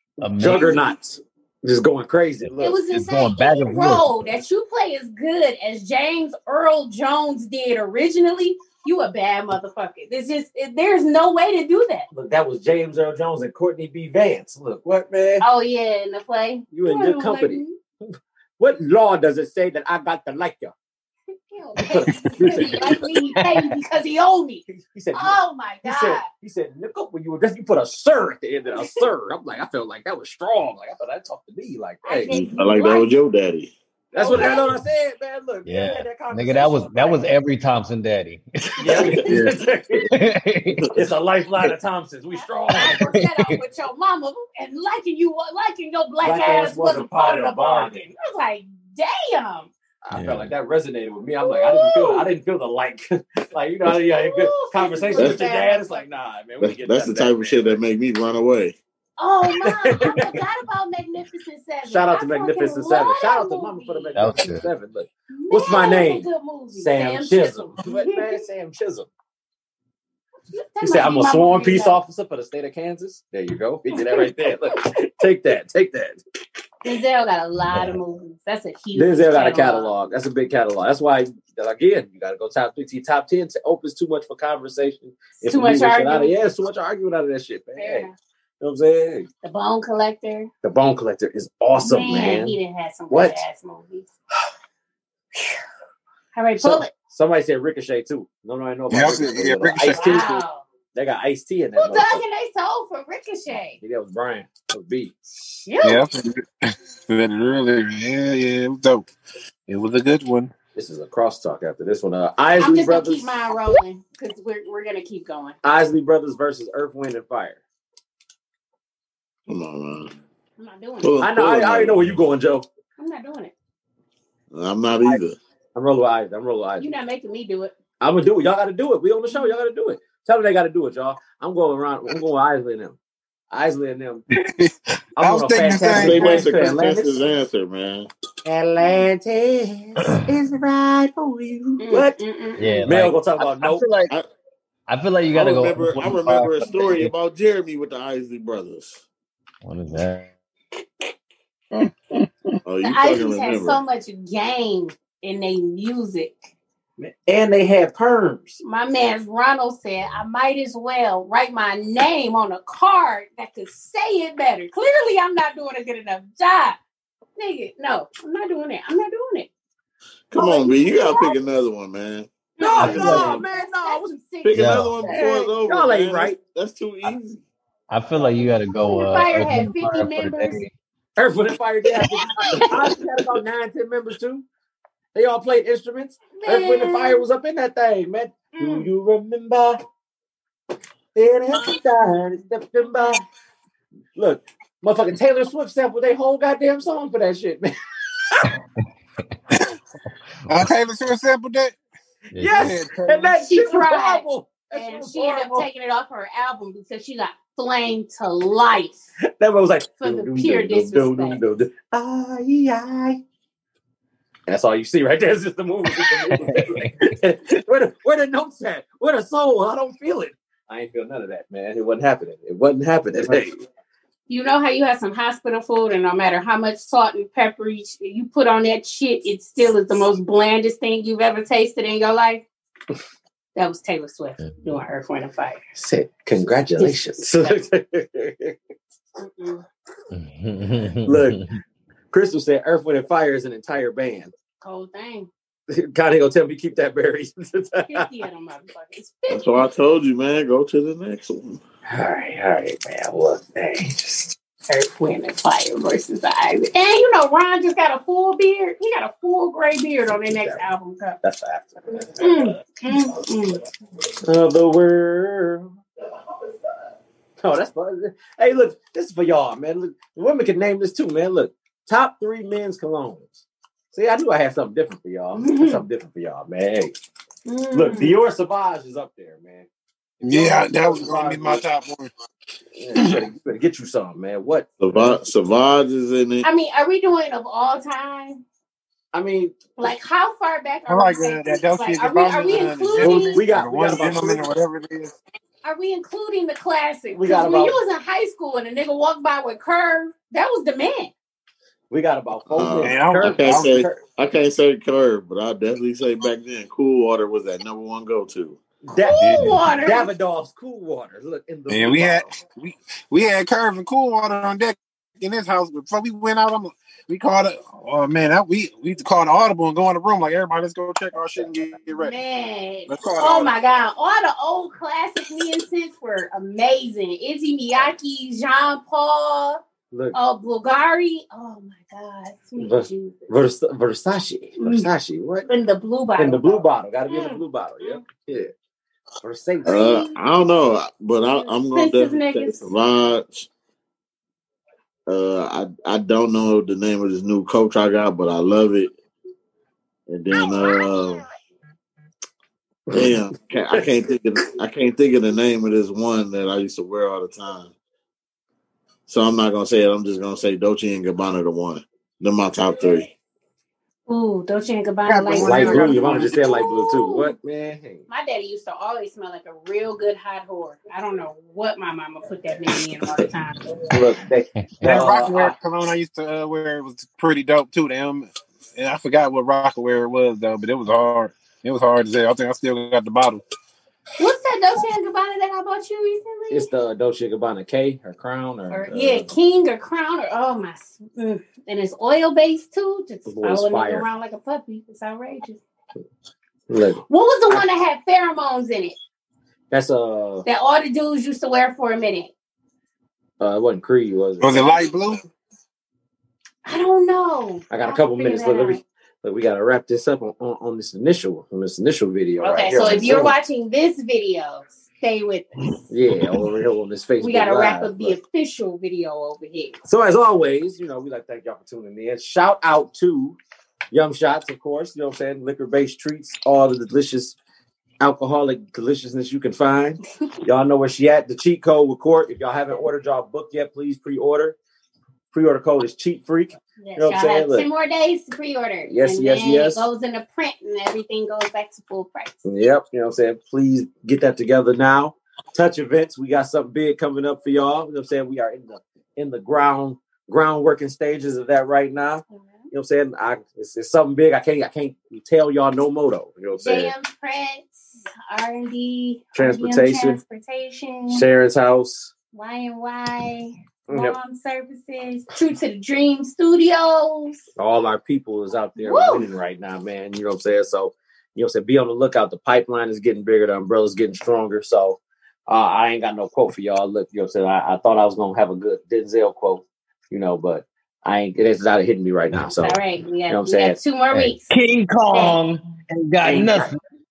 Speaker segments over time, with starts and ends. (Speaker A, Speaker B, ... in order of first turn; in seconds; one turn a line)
Speaker A: 0.2-0.9
Speaker B: 0.2-2.8
Speaker A: 2.5-4.2
Speaker C: 2.6-12.1
Speaker B: 12.1-15.4
Speaker C: 15.4-17.8
Speaker B: 16.7-20.7
Speaker C: 21.5-26.3
Speaker B: 21.8-23.1
Speaker B: 24.7-32.3
Speaker C: 28.7-29.1
Speaker C: 32.0-33.2
Speaker D: 32.3-33.7
Speaker B: 34.1-37.4
Speaker C: 34.1-34.8
Speaker A: 35.7-39.3
Speaker B: 38.8-40.1
Speaker C: 38.9-39.4
Speaker D: 39.2-40.1
Speaker A: 40.1-41.0
Speaker B: 40.9-43.0
Speaker C: 42.3-49.7
Speaker A: 43.0-43.6
Speaker B: 46.2-48.0
Speaker B: 50.0-57.8
Speaker A: 50.1-50.5
Speaker C: 51.4-52.3
Speaker C: 53.9-56.0
Speaker D: 55.2-55.5
Speaker D: 56.6-58.8
Speaker C: 59.2-64.2
Speaker B: 59.5-60.4
Speaker B: 61.9-69.1
Speaker A: 64.2-64.7
Speaker C: 65.3-68.4
Speaker C: 70.5-72.0
Speaker B: 70.8-76.2
Speaker C: 73.9-74.3
Speaker C: 76.8-79.9
Speaker A: 77.7-78.0
Speaker B: 79.0-88.1
Speaker C: 85.4-86.3
Speaker C: 87.8-88.1
Speaker B: 88.6-89.3
Speaker C: 89.4-90.5
Speaker B: 90.6-92.5
Speaker C: 91.8-94.1
Speaker B: 93.1-93.4
Speaker C: 95.4-95.6
Speaker C: 96.3-96.9
Speaker B: 96.6-102.2
Speaker E: 98.9-100.2
Speaker C: 99.9-100.6
Speaker C: 101.8-103.8
Speaker B: 103.8-105.2
Speaker C: 105.3-106.0
Speaker E: 105.8-109.1
Speaker E: 109.7-110.5
Speaker B: 110.7-113.3
Speaker C: 112.6-115.5
Speaker B: 115.6-117.6
Speaker D: 119.5-120.1
Speaker C: 120.6-121.2
Speaker D: 121.0-122.2
Speaker B: 121.2-122.7
Speaker C: 123.0-123.5
Speaker D: 124.5-125.4
Speaker B: 125.7-126.9
Speaker C: 126.8-127.7
Speaker B: 128.0-133.0
Speaker B: 133.5-134.3
Speaker E: 134.3-136.5
Speaker B: 135.2-137.2
Speaker D: 135.9-138.1
Speaker B: 138.4-142.2
Speaker C: 141.8-142.9
Speaker A: 142.6-144.1
Speaker B: 142.8-143.8
Speaker A: 144.9-147.1
Speaker D: 145.3-149.0
Speaker A: 149.6-150.3
Speaker D: 152.6-153.8
Speaker C: 152.8-156.5
Speaker B: 157.0-158.6
Speaker C: 158.6-166.8
Speaker C: 167.4-169.5
Speaker D: 170.3-172.3
Speaker C: 170.3-171.4
Speaker C: 172.6-175.4
Speaker B: 172.6-174.1
Speaker A: 172.7-173.4
Speaker D: 172.9-173.2
Speaker D: 174.4-177.4
Speaker A: 174.5-174.9
Speaker B: 175.1-176.4
Speaker A: 177.9-180.7
Speaker C: 178.8-180.7
Speaker B: 181.2-184.4
Speaker C: 181.9-183.0
Speaker B: 185.1-189.8
Speaker C: 186.3-187.2
Speaker C: 188.5-188.9
Speaker B: 191.1-193.2
Speaker B: 194.2-197.7
Speaker E: 200.5-201.8
Speaker A: 202.3-202.8
Speaker B: 202.3-205.7
Speaker E: 202.5-203.4
Speaker C: 203.4-209.1
Speaker B: 209.4-213.2
Speaker C: 210.0-211.4
Speaker B: 214.5-223.6
Speaker A: 216.1-217.1
Speaker C: 224.3-232.4
Speaker C: 233.6-235.6
Speaker A: 234.4-234.7
Speaker B: 235.7-238.6
Speaker C: 236.8-237.6
Speaker C: 239.2-239.6
Speaker A: 240.1-241.6
Speaker B: 241.0-241.4
Speaker B: 242.1-244.3
Speaker C: 244.6-245.3
Speaker B: 245.7-248.1
Speaker C: 247.9-249.6
Speaker D: 249.3-251.6
Speaker B: 251.9-254.3
Speaker C: 254.7-261.2
Speaker B: 260.1-260.7
Speaker B: 261.2-262.5
Speaker C: 262.1-263.6
Speaker B: 264.2-265.7
Speaker B: 267.4-276.9
Speaker C: 275.4-275.8
Speaker C: 277.4-278.2
Speaker B: 277.7-279.7
Speaker E: 280.2-282.1
Speaker B: 280.3-281.6
Speaker B: 282.7-285.2
Speaker D: 284.8-286.5
Speaker C: 286.4-288.4
Speaker B: 289.1-289.7
Speaker C: 289.8-293.4
Speaker E: 290.9-295.2
Speaker B: 293.0-294.4
Speaker C: 295.6-301.1
Speaker B: 297.1-297.8
Speaker B: 301.9-304.0
Speaker D: 302.5-308.6
Speaker E: 302.8-303.8
Speaker B: 308.8-312.3
Speaker C: 309.0-310.1
Speaker E: 309.2-309.6
Speaker E: 311.7-322.1
Speaker C: 321.9-329.6
Speaker E: 322.9-323.5
Speaker B: 329.9-330.2
Speaker C: 330.1-333.4
Speaker B: 332.6-335.4
Speaker C: 334.6-334.9
Speaker C: 335.4-338.0
Speaker B: 336.2-338.5
Speaker B: 339.2-340.0
Speaker D: 339.6-343.5
Speaker C: 339.7-340.1
Speaker C: 341.7-342.7
Speaker D: 345.1-348.9
Speaker D: 350.1-351.2
Speaker D: 352.9-357.7
Speaker D: 359.1-363.1
Speaker C: 364.1-367.3
Speaker E: 365.1-366.6
Speaker B: 365.4-368.1
Speaker C: 368.1-373.7
Speaker B: 373.9-375.5
Speaker A: 374.8-375.1
Speaker E: 374.8-383.4
Speaker C: 384.2-386.7
Speaker B: 386.5-389.3
Speaker C: 388.7-395.6
Speaker B: 393.3-394.1
Speaker B: 396.7-397.6
Speaker C: 397.1-398.9
Speaker B: 399.7-400.4
Speaker C: 400.4-402.3
Speaker B: 403.4-404.9
Speaker E: 404.4-405.2
Speaker C: 406.6-408.8
Speaker B: 407.7-413.4
Speaker C: 412.4-415.7
Speaker B: 415.9-418.2
Speaker C: 417.2-419.8
Speaker B: 419.9-423.4
Speaker B: 423.9-427.4
Speaker B: 428.0-434.6
Speaker B: 435.3-437.7
Speaker C: 436.8-442.4
Speaker B: 438.9-439.9
Speaker B: 442.4-456.9
Speaker C: 452.3-452.7
Speaker C: 456.6-461.3
Speaker B: 459.4-460.2
Speaker B: 461.1-462.1
Speaker C: 462.3-467.4
Speaker B: 463.9-464.2
Speaker B: 467.6-483.8
Speaker C: 468.8-469.3
Speaker C: 482.5-484.5
Speaker A: 484.1-486.8
Speaker C: 485.1-485.4
Speaker B: 486.2-486.7